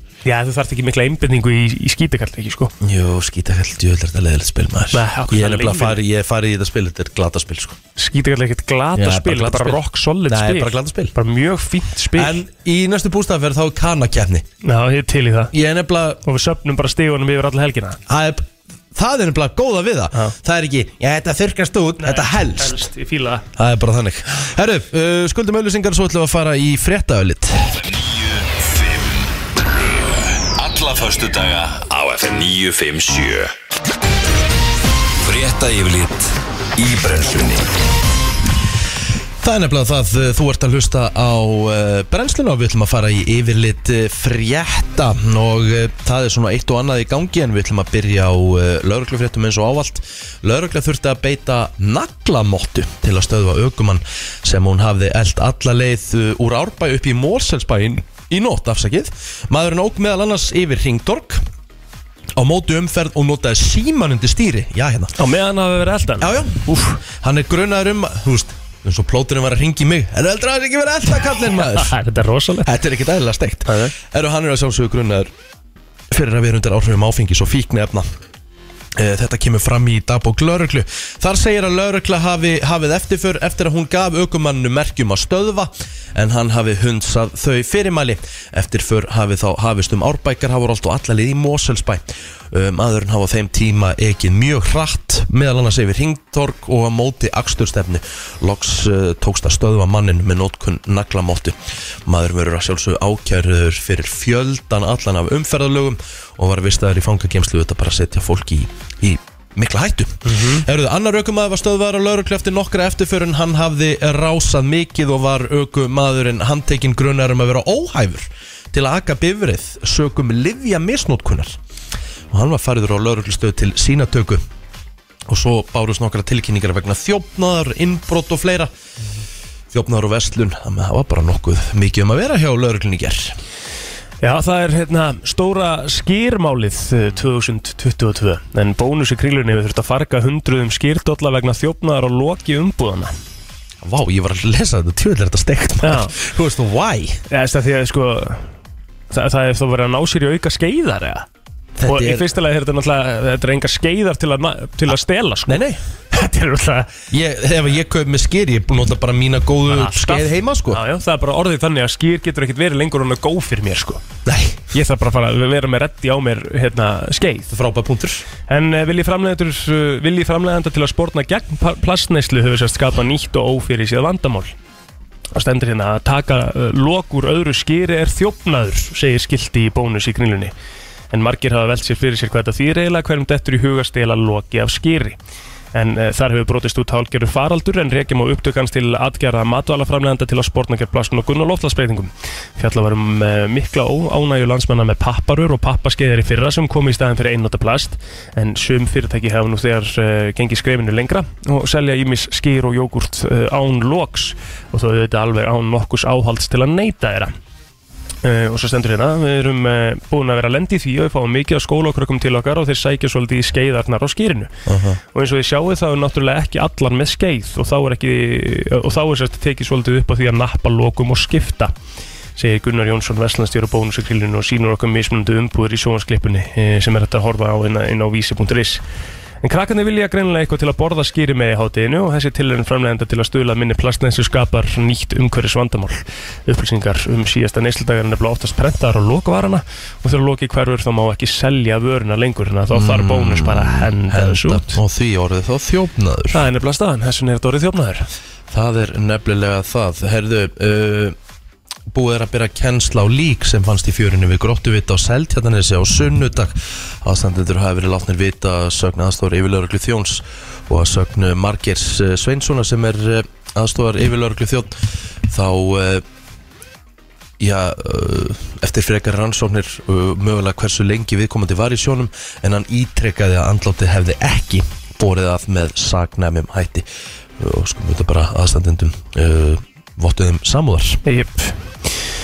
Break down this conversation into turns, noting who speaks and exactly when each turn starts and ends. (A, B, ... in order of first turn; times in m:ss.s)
0:00.2-0:02.7 A
0:02.8-0:07.8 B
0:04.9-0:06.0 A
0:08.0-0:12.4 A
0:09.0-0:11.1 B
0:12.1-0:14.4 B
0:14.6-0:15.5 A
0:15.5-0:16.2 B
0:16.2-0:18.0 A
0:18.1-0:22.9 B
0:22.0-0:23.4 A
0:23.6-0:27.8 B
0:27.8-0:33.5 C
0:35.2-0:37.7 C
0:39.4-1:01.4 B
1:02.4-1:05.1 B
1:05.2-1:07.0 A
1:06.2-1:11.9 B
1:11.6-1:12.7 A
1:12.6-1:15.3 B
1:13.7-1:13.9 A
1:16.1-1:18.1 B
1:18.9-2:01.6 B
1:50.2-1:50.6 A
2:02.3-2:04.4 B
2:05.3-2:08.7 B
2:09.7-2:13.4 B
2:14.2-2:23.1 A
2:23.8-2:27.2 B
2:25.8-2:26.1 A
2:27.3-2:28.5 A
2:29.1-2:31.3 A
2:31.8-2:32.3 B
2:31.8-2:37.0 A
2:35.5-2:35.8 B
2:37.1-2:40.8 B
2:39.7-2:44.0 A
2:44.2-2:44.7 B
2:44.7-2:47.5 A
2:47.5-2:48.2 B
2:48.5-2:54.5 A
2:55.3-3:00.5 A
3:01.1-3:05.2 A
3:05.7-3:27.3 A
3:28.2-3:34.5 A
3:34.6-3:35.0 B
3:35.1-3:41.7 A
3:42.4-3:48.8 A
3:49.4-4:04.8 A
4:02.7-4:06.4 B
4:06.3-4:08.1 A
4:08.5-4:11.2 B
4:11.9-4:26.0 B
4:27.4-4:41.0 B
4:41.0-4:41.9 A